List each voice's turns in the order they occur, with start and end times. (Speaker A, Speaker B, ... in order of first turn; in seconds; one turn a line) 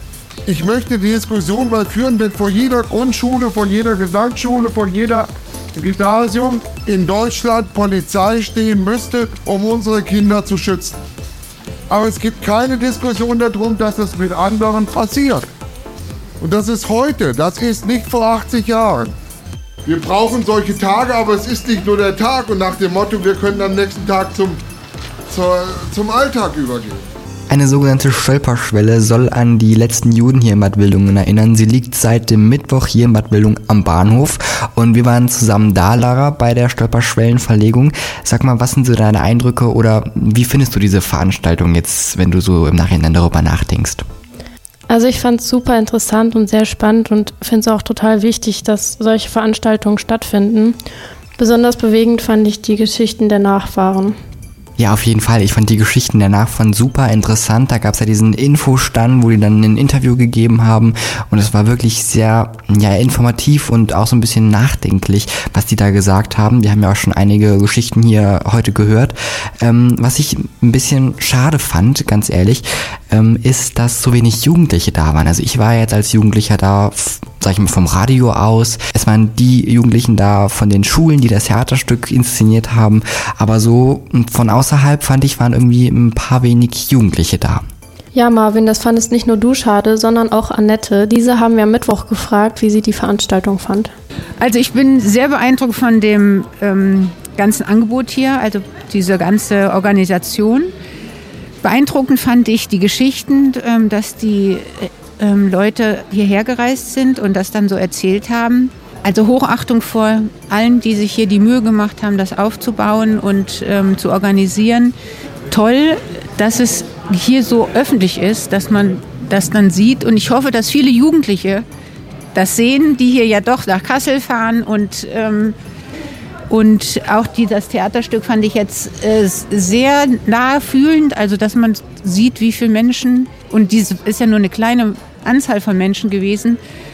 Speaker A: 0.5-10.9
Speaker A: 11.9-15.5
Speaker A: 16.4-19.1
Speaker A: 19.8-24.6
Speaker A: 25.3-27.0
Speaker B: 27.5-44.0
Speaker C: 44.9-50.8
Speaker C: 51.4-54.1
Speaker B: 54.8-87.6
Speaker C: 88.1-93.9
Speaker D: 94.4-100.7
Speaker D: 101.6-114.9
Speaker D: 115.5-121.6
Speaker D: 122.3-125.5
Speaker D: 126.5-136.6